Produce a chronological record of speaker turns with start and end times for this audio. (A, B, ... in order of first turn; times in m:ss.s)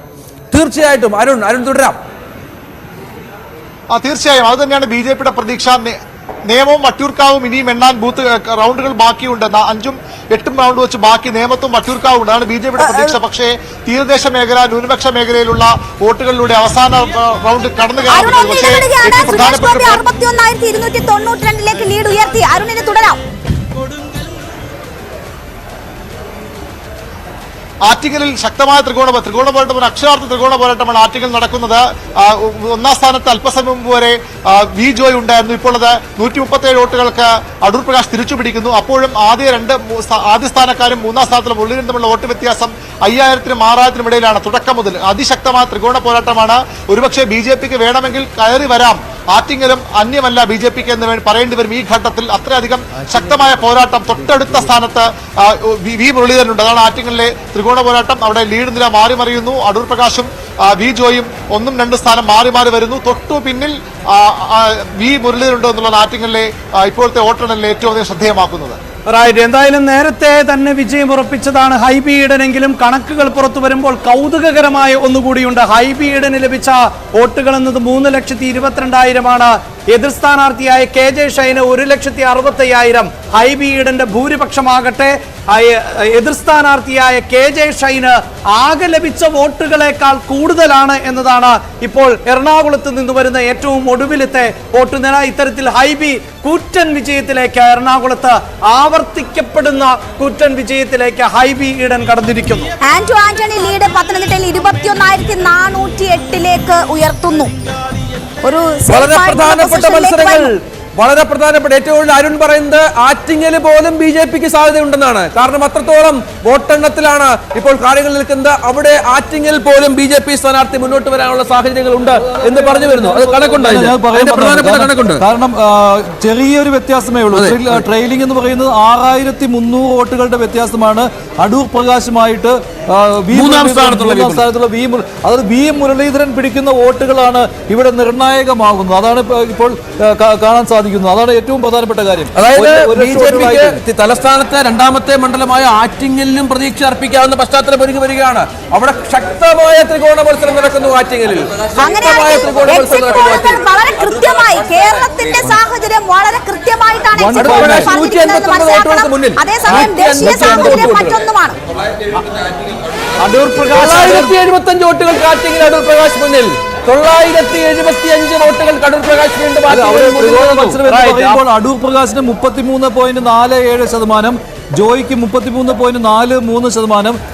0:00.5-0:02.0 A
0:03.9-0:06.0 B
0:06.5-0:20.0 B
0:12.8-0:13.2 C
0:18.1-0:23.2 C
0:27.8-1:08.8 B
1:09.1-1:42.7 D
1:42.8-1:47.5 C
1:48.4-1:50.5 C
1:48.9-2:05.2 A
2:03.5-2:23.8 E
2:07.3-2:07.8 A
2:13.3-2:14.4 A
2:22.3-2:33.6 A
2:31.8-2:41.6 C
2:37.1-2:37.9 E
2:37.3-2:41.2 A
2:39.8-2:40.8 E
2:43.2-2:44.3 D
2:43.7-2:50.8 A
2:49.7-2:57.2 E
2:50.9-2:51.4 D